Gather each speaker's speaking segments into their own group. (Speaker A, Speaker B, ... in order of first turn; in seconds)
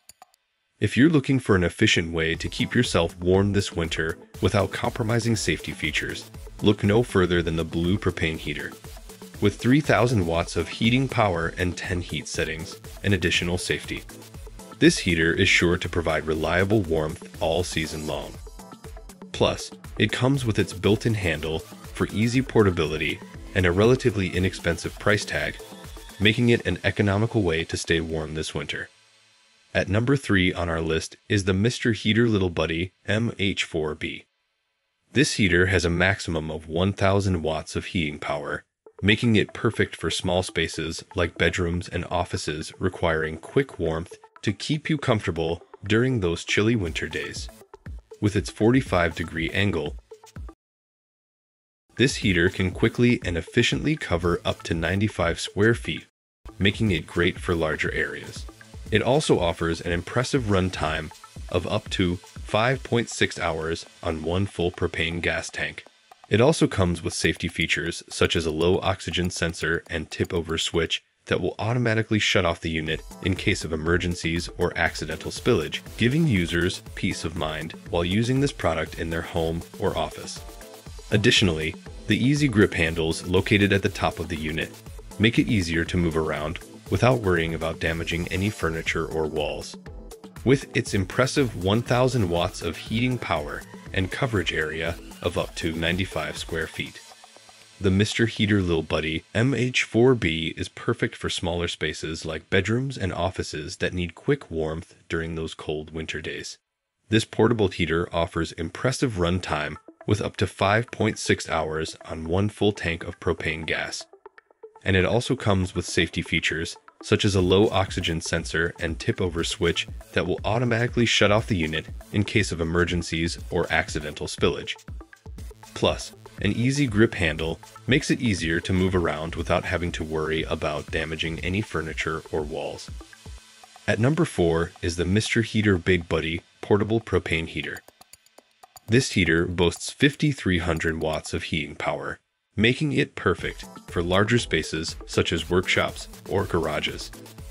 Speaker A: 0.8-8.8, 9.4-14.1, 14.8-18.4, 19.3-25.6, 26.2-28.9, 29.7-34.3, 35.1-47.5, 48.2-50.0, 52.0-80.5, 81.1-89.8, 90.4-97.0, 97.8-114.1, 114.8-124.8, 125.7-132.9, 133.9-137.8, 138.9-147.1